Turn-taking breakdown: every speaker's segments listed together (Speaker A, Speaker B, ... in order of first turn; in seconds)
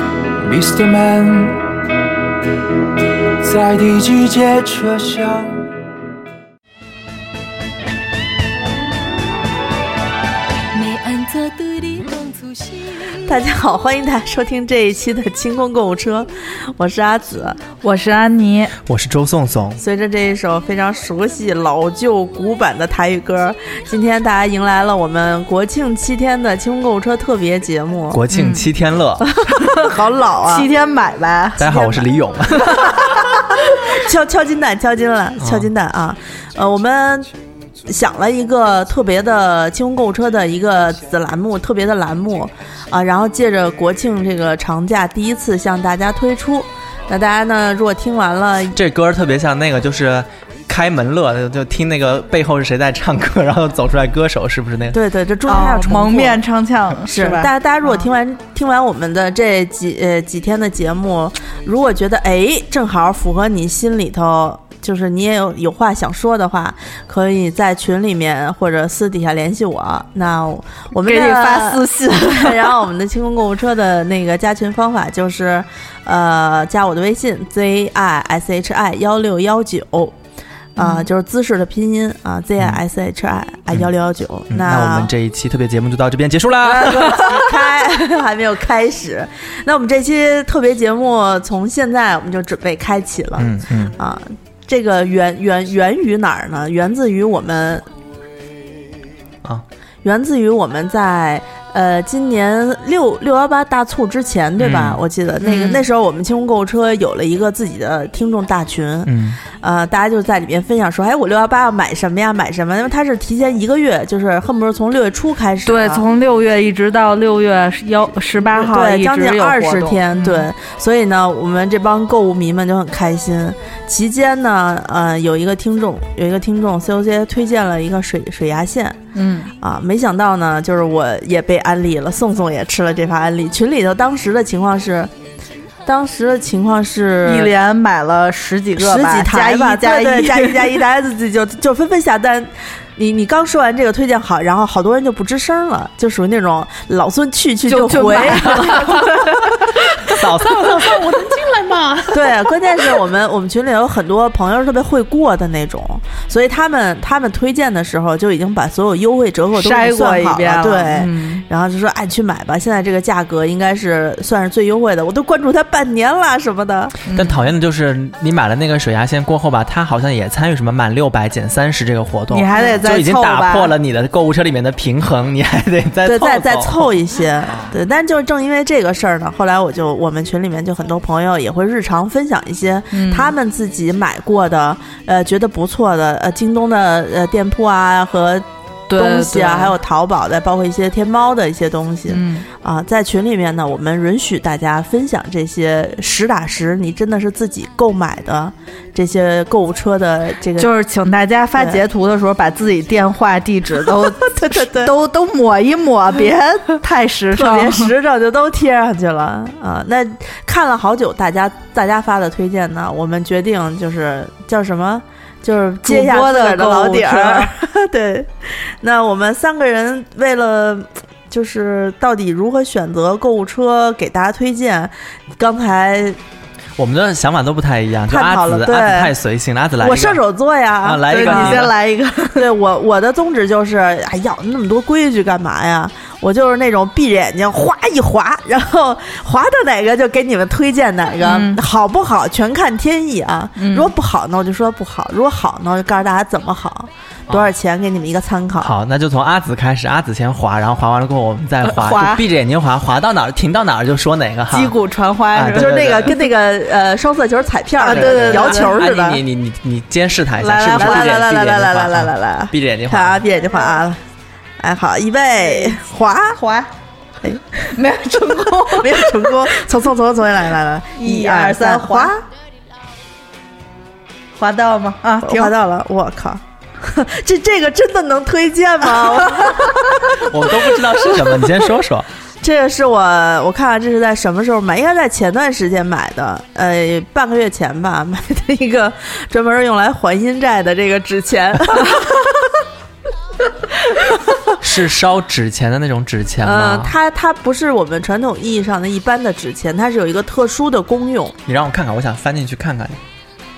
Speaker A: 0.4-1.6, 3.4-5.5
Speaker B: 10.7-12.7, 17.8-18.7, 28.3-28.7, 29.6-29.9, 30.4-31.9, 32.6-32.9, 55.5-57.5, 71.0-72.7, 80.8-81.1, 105.4-105.8, 115.7-120.5, 129.1-129.5, 137.2-140.8, 147.7-152.8, 159.6-161.4, 167.1-167.4, 172.3-173.7, 182.9-183.3, 188.9-189.7, 192.1-192.4, 200.6-207.9, 215.8-217.5, 231.1-232.4, 241.2-241.6, 243.6-243.9, 251.6-252.2, 254.5-256.1, 257.8-258.7, 260.4-261.2, 265.5-265.8, 266.4-266.7, 267.7-269.5, 270.9-272.1, 274.4-275.5
Speaker C: 13.2-17.6, 19.8-28.2, 29.6-30.7, 33.8-37.3, 37.9-48.8, 54.9-56.4, 57.0-80.1, 80.8-85.1, 86.7-97.8, 100.0-116.0, 118.4-129.0, 129.6-135.1, 135.8-137.5, 138.8-149.2, 152.1-167.0, 176.0-200.7, 204.0-204.9, 207.3-226.2, 228.1-229.1, 229.8-231.7, 232.3-248.7, 255.5-259.2, 260.7-264.0, 264.6-266.4, 268.5-272.2, 275.2-279.8, 282.4-292.2, 296.4-301.3
Speaker D: 18.9-19.8, 28.1-29.2, 31.6-33.0, 35.4-35.7, 48.7-55.0, 84.5-87.5, 93.4-93.9, 104.6-105.0, 109.0-109.4, 150.0-151.5, 167.1-176.9, 226.8-230.2, 230.8-231.7, 248.6-254.7, 255.3-256.1, 257.9-263.2, 280.1-282.1, 294.6-296.9, 301.4-303.0